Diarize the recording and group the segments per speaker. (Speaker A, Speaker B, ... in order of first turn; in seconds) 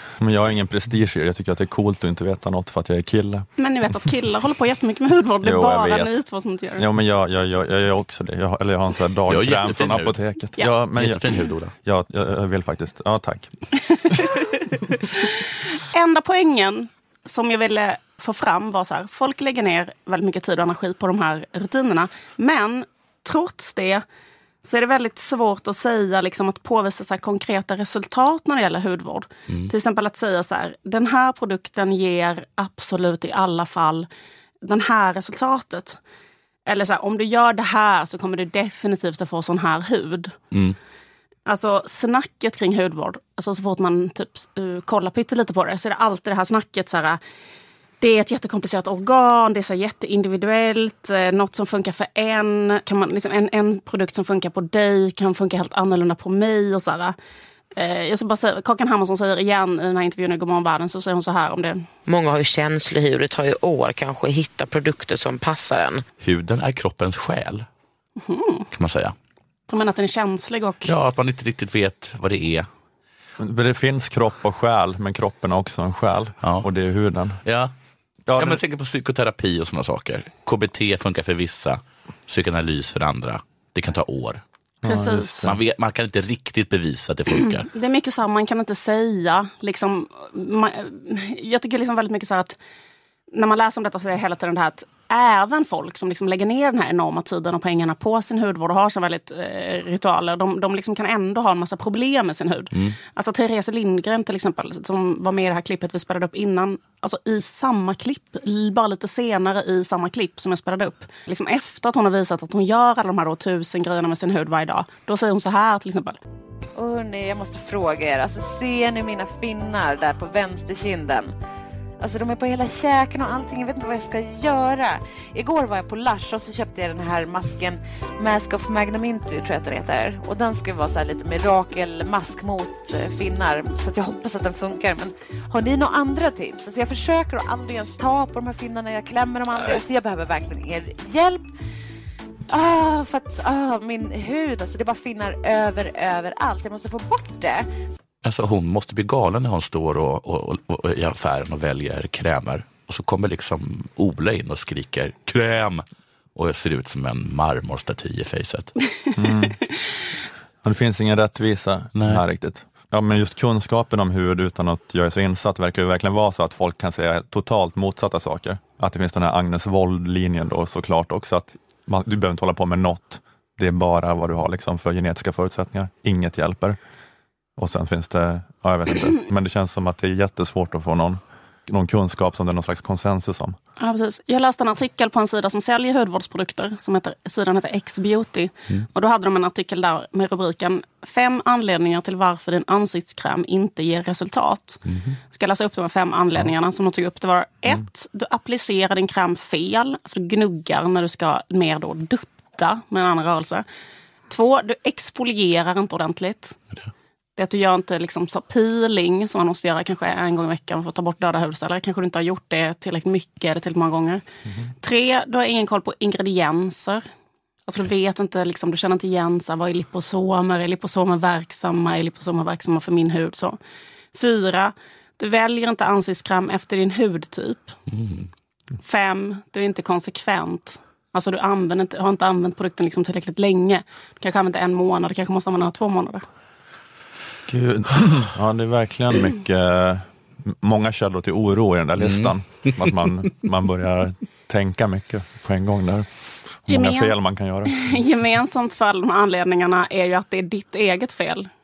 Speaker A: 0.2-3.5, 5.4-6.1, 6.8-11.3, 11.8-14.2, 73.4-77.4, 78.3-78.6, 84.8-85.6, 159.2-159.6, 160.6-176.8, 177.6-183.6, 237.5-248.0
Speaker B: 3.6-6.8, 14.3-24.1, 24.6-34.1, 34.6-36.0, 36.7-40.4, 41.5-47.2, 48.0-57.2, 57.8-61.9, 68.2-68.7, 69.7-70.9, 84.8-85.5, 87.4-92.6, 93.3-116.2, 183.8-203.7, 204.3-206.6, 207.4-214.2, 214.8-217.0, 217.7-223.6, 224.1-227.8, 228.8-236.2, 246.7-247.2, 247.7-251.5
Speaker C: 9.3-10.2, 11.0-11.7, 66.2-67.7, 68.7-69.2, 70.8-72.7, 76.4-76.7, 77.5-77.7, 78.4-84.4, 85.4-87.7, 148.2-155.8, 156.4-158.7, 161.9-162.2, 194.9-195.2, 227.9-228.3, 242.0-243.0
Speaker D: 62.1-66.0
Speaker E: 116.8-121.3, 122.0-141.5, 142.5-147.7